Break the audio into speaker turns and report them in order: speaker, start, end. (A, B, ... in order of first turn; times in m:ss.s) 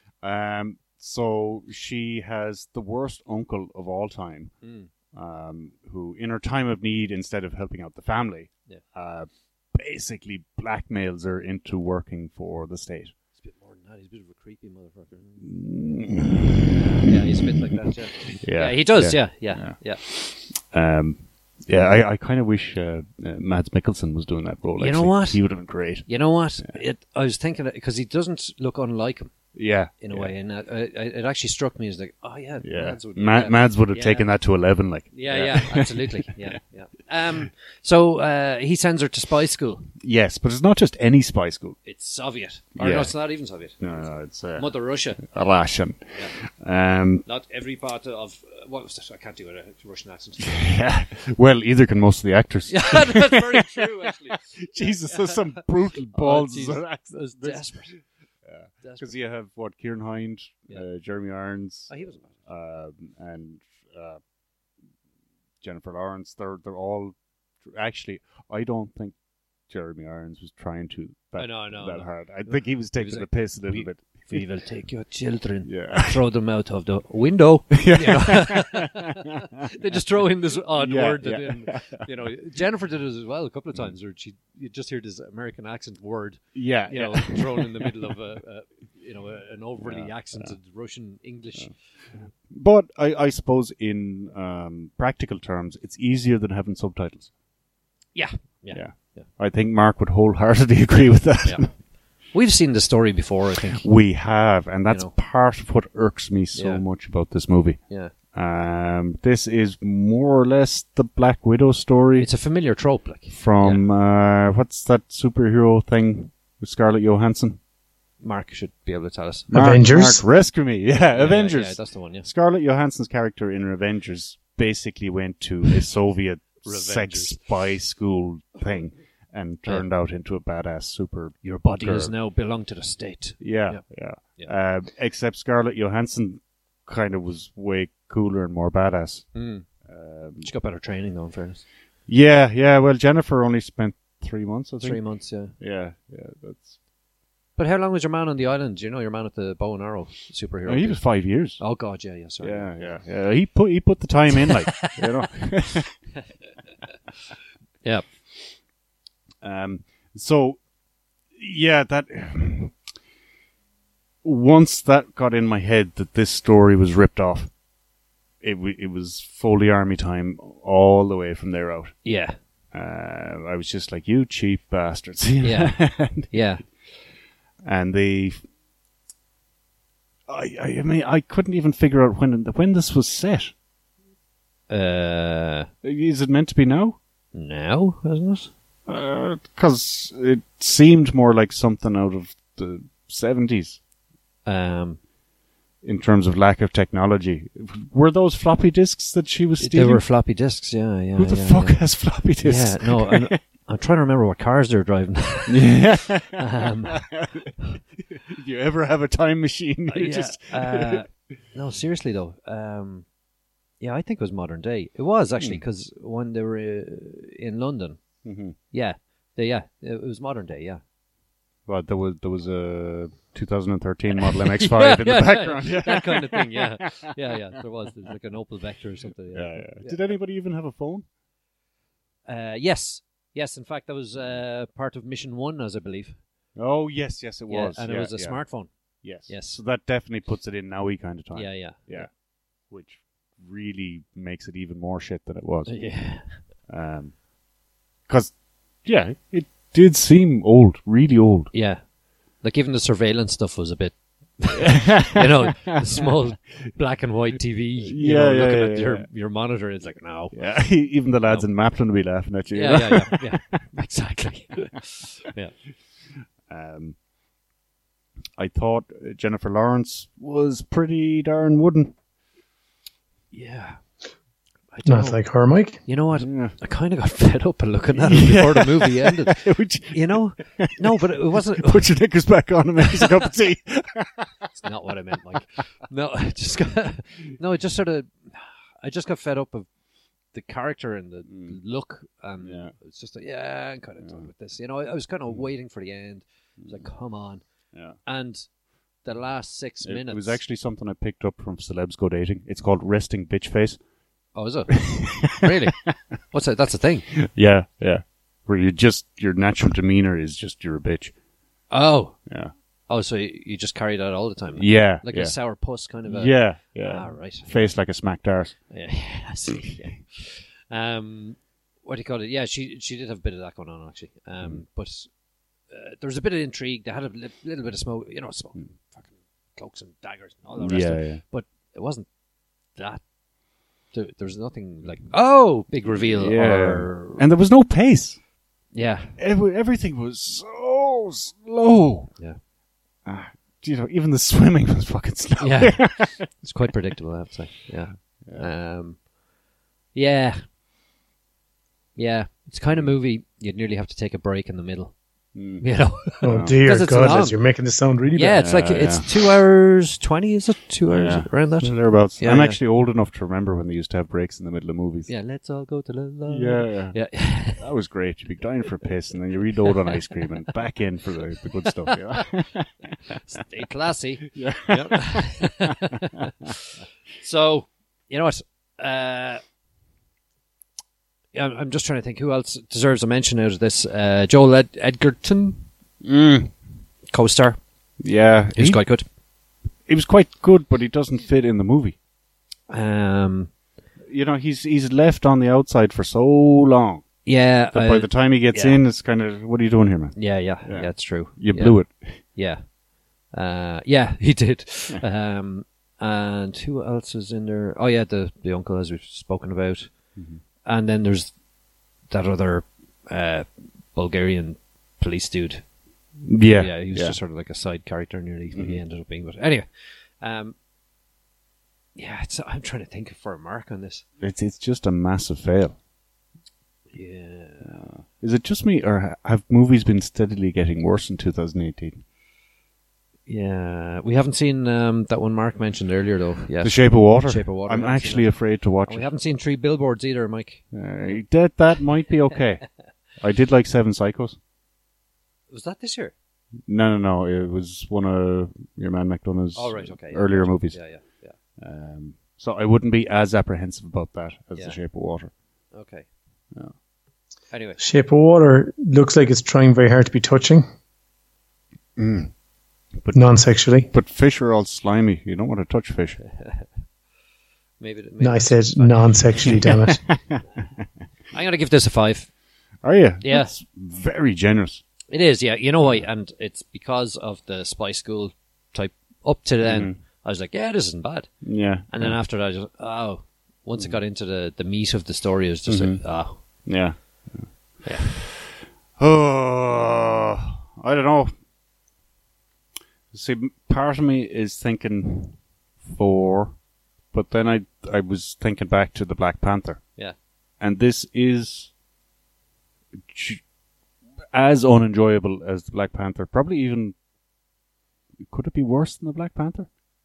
0:00.2-0:13.1 A
0:04.6-0:04.9 B
0:13.3-0:15.5 B
0:15.4-0:17.3 A
0:16.7-0:20.0 B
0:18.2-0:26.8 A
0:24.8-0:34.3 B
0:29.5-0:30.3 A
0:32.6-0:36.1 A
0:35.1-0:39.9 B
0:40.0-0:41.8 A
0:41.8-0:45.2 B
0:42.8-0:43.1 A
0:43.8-0:47.2 A
0:47.2-0:50.7 B
0:50.4-0:53.8 A
0:52.7-0:55.6 B
0:54.4-1:04.2 A
0:56.1-0:58.0 B
0:58.8-0:59.1 B
1:01.9-1:02.4 B
1:05.6-1:09.1 A
1:09.7-1:14.4 A
1:11.4-1:31.7 B
1:15.6-1:16.2 A
1:17.7-1:19.4 A
1:20.8-1:22.0 A
1:26.5-1:27.9 A
1:29.8-1:30.5 A
1:31.6-1:37.3 A
1:38.1-1:39.3 B
1:38.7-1:41.7 A
1:41.4-1:43.9 B
1:43.8-1:52.3 A
1:44.9-1:45.1 B
1:46.5-1:46.8 B
1:47.9-1:48.1 B
1:52.2-1:53.8 B
1:53.3-1:57.6 A
1:58.2-1:59.5 B
1:59.5-2:00.2 C
1:59.5-2:12.1 A
2:01.1-2:02.3 B
2:06.6-2:07.4 B
2:11.4-2:14.5 B
2:13.4-2:20.5 A
2:19.3-2:19.7 B
2:20.4-2:21.6 B
2:22.0-2:26.8 A
2:24.8-2:25.6 B
2:27.6-2:31.0 B
2:30.6-2:31.6 A
2:31.6-2:33.0 B
2:32.4-2:36.0 A
2:34.4-2:35.0 B
2:39.4-2:40.6 A
2:41.3-2:42.8 A
2:44.2-2:47.5 A
2:48.4-2:52.1 A
2:52.0-2:52.4 B
2:52.7-2:56.3 A
2:55.4-2:56.6 B
2:57.6-2:58.4 A
3:00.3-3:03.5 A
3:04.7-3:05.7 B
3:05.8-3:07.0 A
3:07.3-3:08.5 B
3:08.9-3:13.8 A
3:14.4-3:15.0 B
3:15.8-3:20.0 A
3:19.6-3:21.9 B
3:21.2-3:23.4 A
3:22.4-3:25.8 B
3:25.5-3:31.1 A
3:26.3-3:27.1 B
3:29.9-3:33.1 B
3:33.8-3:40.8 B
3:38.2-3:38.6 A
3:41.6-3:46.9 A
3:44.2-3:50.0 B
3:49.3-3:51.0 A
3:52.2-3:56.2 B
3:56.5-4:07.2 A
3:57.5-3:59.6 B
4:01.3-4:02.1 B
4:05.7-4:06.5 B
4:08.0-4:11.5 A
4:11.5-4:20.4 B
4:14.6-4:15.7 A
4:17.9-4:19.1 A
4:20.3-4:23.6 A
4:22.5-4:25.5 B
4:26.5-4:27.0 A
4:28.4-4:31.9 A
4:33.3-4:34.0 B
4:34.7-4:35.2 B
4:34.8-4:35.8 C
4:35.8-4:41.9 B
4:36.1-4:36.6 A
4:38.0-4:40.7 A
4:41.6-4:44.5 A
4:44.6-4:49.7 B
4:50.3-4:57.4 B
4:51.3-4:51.6 A
4:52.4-4:52.7 A
4:54.0-4:54.3 A
4:58.0-4:58.5 B
4:59.0-5:00.4 B
4:59.8-5:03.8 A
5:04.3-5:07.1 B
5:04.8-5:05.9 A
5:07.2-5:11.1 A
5:11.7-5:12.2 B
5:12.3-5:12.5 A
5:12.9-5:17.7 B
5:14.6-5:18.7 A
5:18.7-5:25.1 B
5:25.7-5:32.1 B
5:30.6-5:31.2 A
5:32.7-5:33.0 B
5:33.9-5:37.2 B
5:36.0-5:38.2 A
5:38.7-5:39.2 B
5:39.2-5:42.2 A
5:43.0-5:46.4 A
5:45.4-5:49.1 B
5:48.0-5:48.5 A
5:49.9-5:50.4 B
5:52.0-5:57.4 B
5:55.3-5:56.5 A
5:56.2-5:58.4 C
5:58.1-6:02.6 B
5:58.4-5:59.2 A
6:00.9-6:05.1 A
6:05.1-6:07.6 B
6:06.3-6:13.1 A
6:11.9-6:12.2 B
6:13.1-6:16.6 B
6:14.3-6:15.4 A
6:17.2-6:19.4 B
6:21.3-6:25.7 B
6:26.0-6:26.5 A
6:27.1-6:27.6 B
6:28.0-6:28.8 A
6:28.5-6:29.0 B
6:29.8-6:32.0 A
6:32.7-6:33.5 B
6:34.1-6:42.2 A
6:37.2-6:38.8 B
6:40.1-6:51.4 B
6:50.1-6:50.4 A
6:52.0-6:55.7 B
6:56.2-6:57.2 A
6:56.4-7:00.6 B
6:58.5-6:58.8 A
7:02.0-7:04.0 B
7:04.2-7:05.8 A
7:06.9-7:07.8 B
7:07.6-7:12.0 A
7:13.3-7:20.6 B
7:16.6-7:19.1 A
7:20.7-7:24.4 A
7:25.5-7:26.1 B
7:26.6-7:35.3 A
7:29.5-7:31.4 B
7:35.7-7:36.1 B
7:37.5-7:37.8 B
7:37.8-7:40.6 C
7:42.0-7:42.3 A
7:43.0-7:46.2 A
7:43.1-7:43.9 C
7:46.2-7:46.7 B
7:47.8-7:49.6 B
7:48.2-7:50.0 C
7:50.1-7:50.4 A
7:51.3-7:52.3 B
7:52.8-7:54.8 A
7:53.2-7:53.5 B
7:55.1-8:07.1 B
7:59.6-8:00.0 A
8:01.4-8:02.2 A
8:05.7-8:11.3 A
8:07.8-8:08.1 B
8:13.1-8:20.0 A
8:20.6-8:21.7 A
8:23.1-8:23.4 A
8:24.3-8:27.0 A
8:28.3-8:29.7 A